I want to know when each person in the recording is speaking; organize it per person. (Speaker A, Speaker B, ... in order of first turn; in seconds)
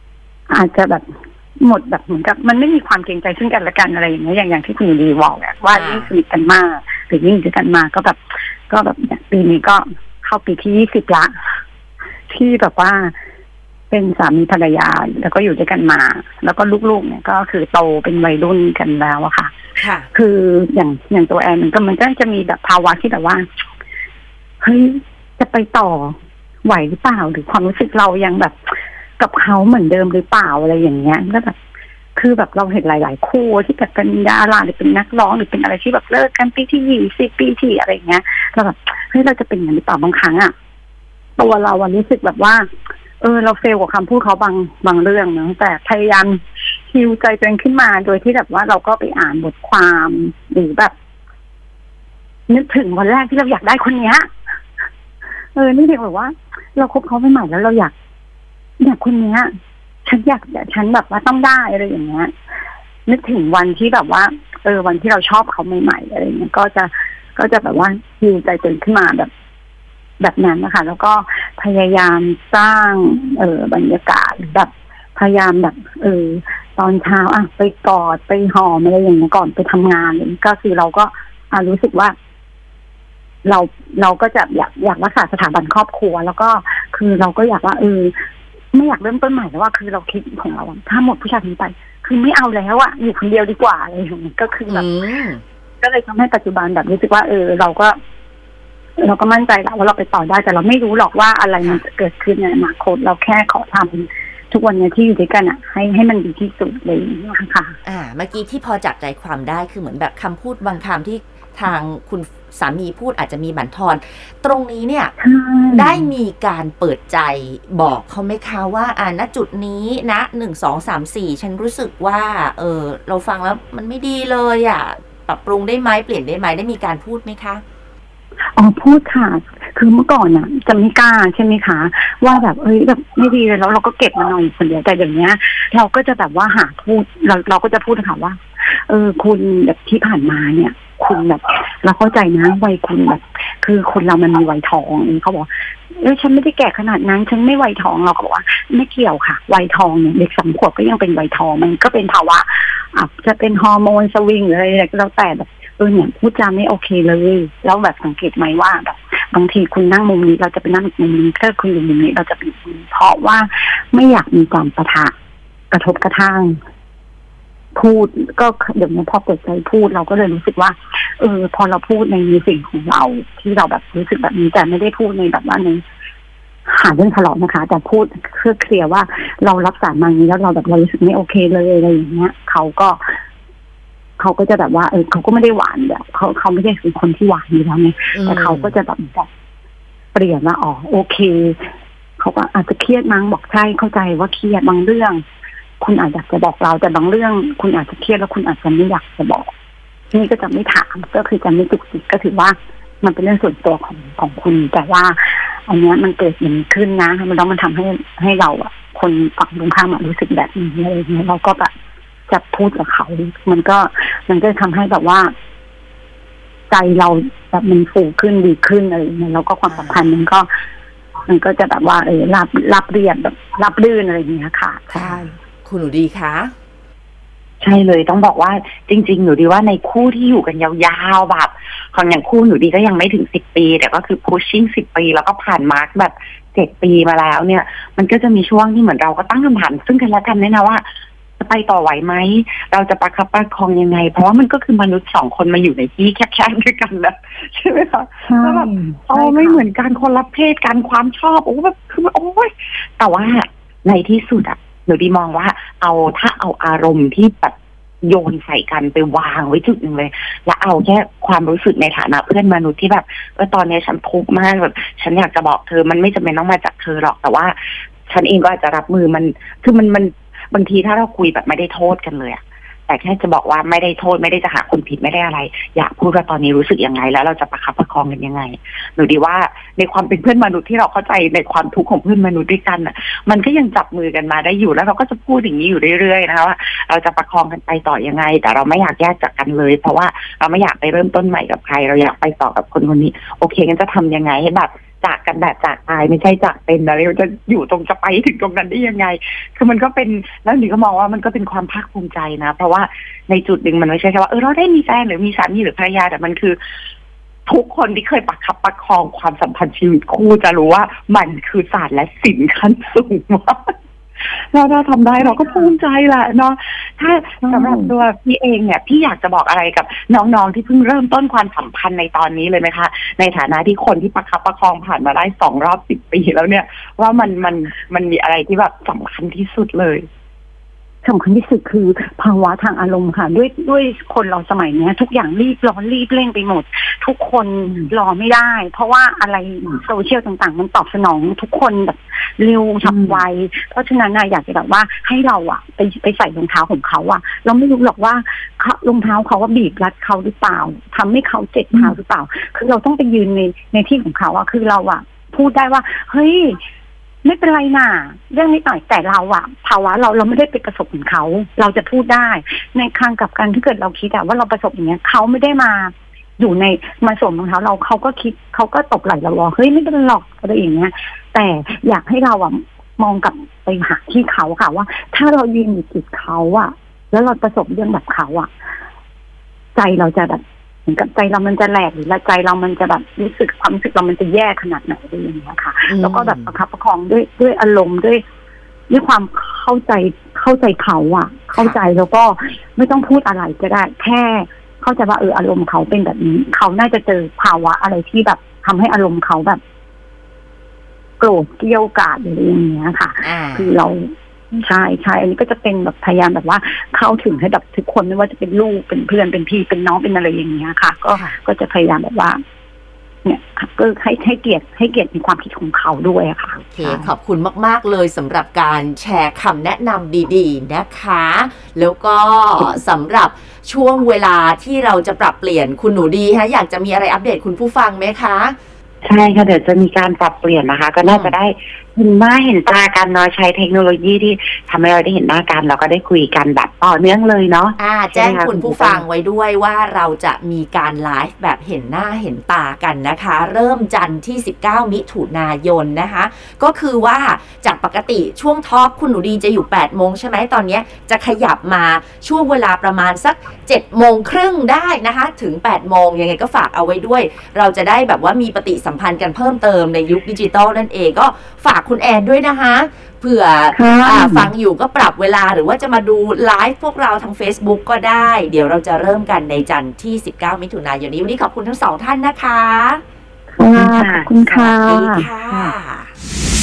Speaker A: 0.5-11.3, 12.3-13.1, 13.9-19.5, 20.1-23.4, 24.6-31.5, 32.1-40.5, 41.4-42.7, 43.2-50.9, 52.5-54.3, 55.5-57.9, 58.8-59.5, 60.0-62.3, 63.1-69.3, 70.2-82.1, 83.4-88.2, 88.7-94.9, 95.8-98.0, 99.0-107.8, 115.2-116.1, 128.6-165.1, 165.7-166.6, 167.7-175.8, 176.7-183.2, 184.2-189.3, 190.1-195.2, 195.8-199.5, 200.1-211.7, 212.3-215.3, 216.7-220.5, 221.3-225.3, 248.3-249.6, 315.4-315.7, 317.4-317.9, 331.0-356.6, 357.2-378.5, 379.8-388.2, 388.9-399.6, 401.2-404.1, 404.6-412.4, 413.2-417.1, 463.7-464.5, 473.6-475.3
Speaker B: 5.7-6.1, 19.8-20.1, 94.7-95.4, 107.9-115.1, 115.7-127.6, 188.1-188.7, 219.7-220.0, 224.9-226.5, 385.9-386.5, 403.2-403.7, 404.5-404.8, 411.1-411.4, 416.6-428.6, 431.1-431.4, 437.8-473.0, 474.5-476.1
Speaker C: 227.6-240.8, 241.4-267.6, 268.1-306.6, 307.5-330.1, 429.1-439.0, 473.7-474.3